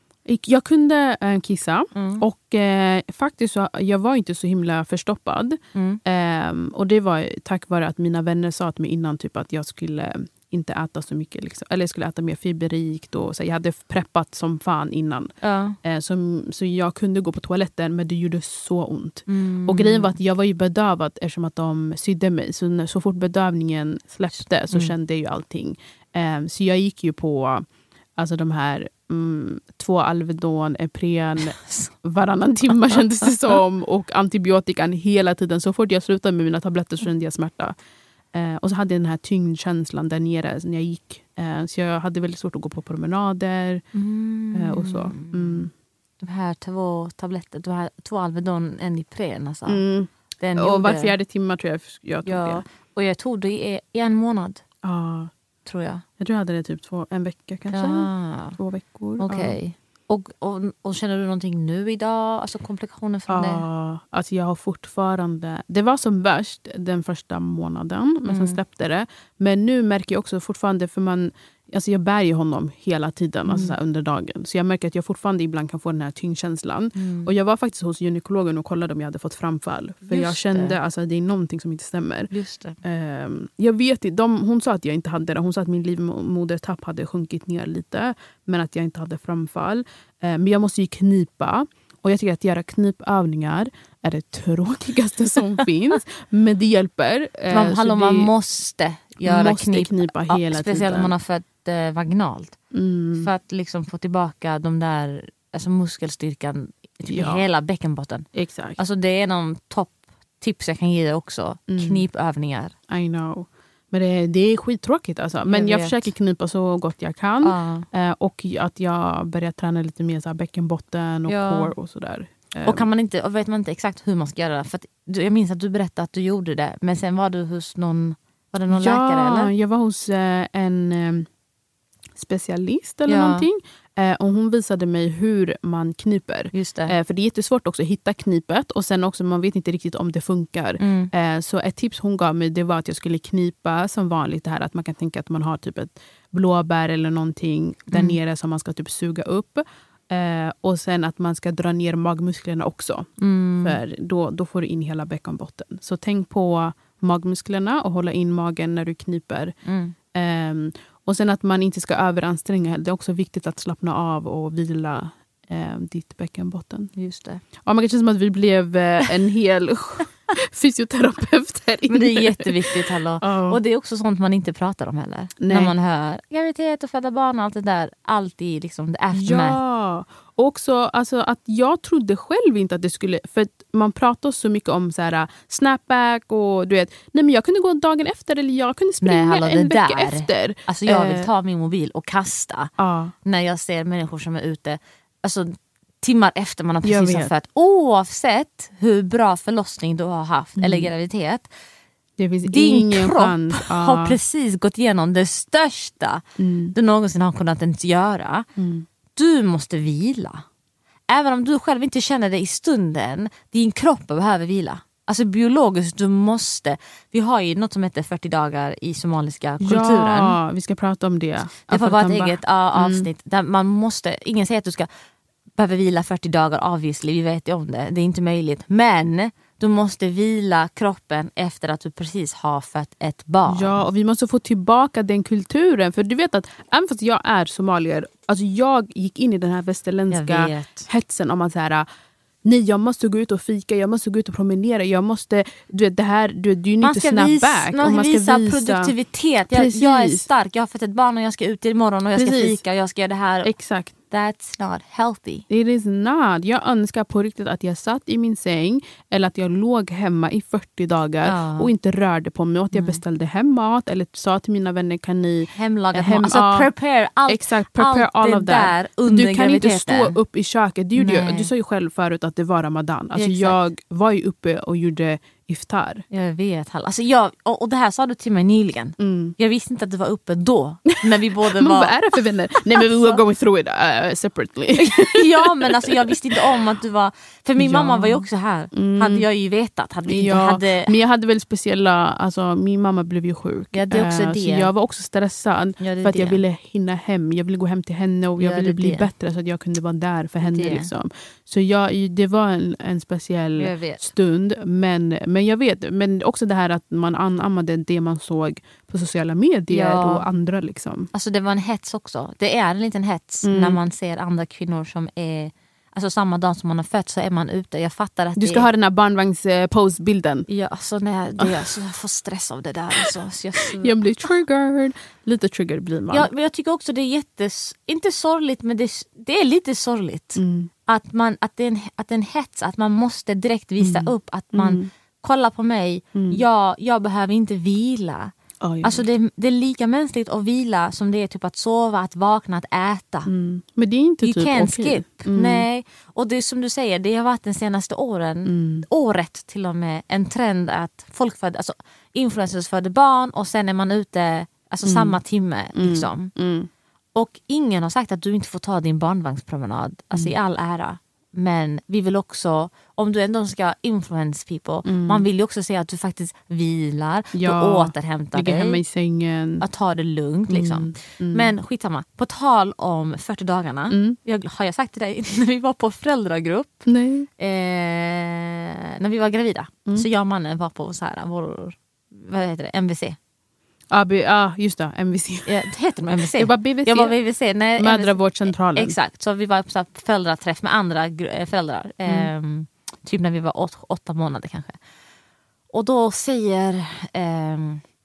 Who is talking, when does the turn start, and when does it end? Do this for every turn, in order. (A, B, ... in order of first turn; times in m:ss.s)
0:00.2-0:15.3 A
0:01.9-0:02.2 B
0:05.7-0:06.0 B
0:15.4-0:15.8 B
0:15.8-0:27.6 A
0:19.3-0:20.1 B
0:28.2-0:37.7 A
0:31.6-0:31.9 B
0:38.3-0:43.8 A
0:43.9-0:45.6 B
0:44.5-0:45.7 A
0:46.2-0:49.8 B
0:49.6-0:52.6 A
0:50.4-0:51.1 B
0:52.2-0:54.6 B
0:54.8-0:55.3 A
0:55.6-0:56.0 B
0:56.2-0:59.6 A
0:57.7-0:58.6 B
0:59.2-1:03.6 B
1:03.3-1:22.3 A
1:08.3-1:08.6 B
1:13.4-1:13.8 B
1:17.0-1:17.3 B
1:20.1-1:20.8 B
1:22.3-1:22.8 B
1:22.8-1:38.3 A
1:37.5-1:42.6 B
1:39.2-1:41.1 A
1:42.7-1:43.3 A
1:43.2-1:48.3 B
1:47.1-1:47.4 A
1:48.3-1:48.8 A
1:48.8-1:52.7 B
1:51.7-1:52.0 A
1:52.9-2:02.9 A
1:55.5-1:56.1 B
1:57.4-1:57.8 B
2:01.3-2:01.7 B
2:02.6-2:09.5 B
2:08.7-2:11.3 A
2:12.2-2:33.1 A
2:13.1-2:13.5 B
2:16.5-2:16.9 B
2:20.8-2:21.1 B
2:27.9-2:28.2 B
2:33.2-2:33.8 B
2:33.6-2:39.6 A
2:39.6-2:39.9 B
2:40.1-2:46.9 A
2:47.0-2:47.4 B
2:47.6-2:53.6 A
2:51.9-2:59.6 B
2:55.4-2:55.7 A
2:59.1-3:11.3 A
3:09.0-3:12.7 B
3:12.8-3:13.1 A
3:13.2-3:21.5 B
3:16.8-3:17.3 A
3:20.6-3:20.9 A
3:22.2-3:24.2 A
3:22.4-3:28.4 B
3:26.4-3:26.7 A
3:28.6-3:28.9 A
3:29.1-3:30.4 B
3:31.1-3:40.4 B
3:39.6-3:43.1 A
3:41.6-3:44.9 B
3:45.6-3:53.8 B
3:53.5-4:01.8 A
4:00.1-4:00.9 B
4:02.4-4:08.9 A
4:06.8-4:13.5 B
4:09.5-4:10.2 A
4:12.1-4:12.6 A
4:13.4-4:13.9 A
4:14.1-4:15.4 B
4:15.5-4:26.7 A
4:21.2-4:21.7 B
4:22.7-4:23.0 B
4:25.5-4:30.2 B
4:27.3-4:36.0 A
4:31.0-4:31.5 B
4:33.1-4:33.6 B
4:36.1-4:42.0 B
4:39.0-4:39.4 A
4:40.9-4:46.4 A
4:42.8-4:43.2 B
4:44.8-4:50.9 B
4:47.6-4:49.2 A
4:50.1-5:11.1 A
4:53.7-4:54.7 B
4:55.8-4:56.4 B
4:58.4-4:59.1 B
5:00.4-5:00.9 B
5:03.6-5:04.1 B
5:09.7-5:10.2 B
5:11.1-5:18.7 B
5:13.4-5:13.8 A
5:18.4-5:20.5 A
5:20.5-5:23.9 B
5:21.4-5:21.6 A
5:23.6-5:26.3 A
5:26.1-5:38.3 B
5:30.4-5:30.7 A
5:33.8-5:34.9 A
5:36.2-5:36.4 A
5:38.6-5:39.0 A
5:38.8-5:43.3 B
5:43.2-5:45.6 A
5:44.2-5:56.3 B
5:48.4-5:48.9 A
5:54.8-5:55.2 A
5:55.8-5:56.7 A
5:57.1-6:08.8 B
6:04.8-6:05.2 A
6:07.3-6:09.6 A
6:09.6-6:16.9 B
6:10.5-6:11.5 A
6:13.9-6:14.2 A
6:16.9-6:17.3 A
6:17.4-6:23.2 B
6:23.9-6:25.6 A
6:25.4-6:34.8 B
6:26.3-6:27.1 A
6:27.8-6:29.0 A
6:32.0-6:32.3 A
6:35.7-6:37.8 B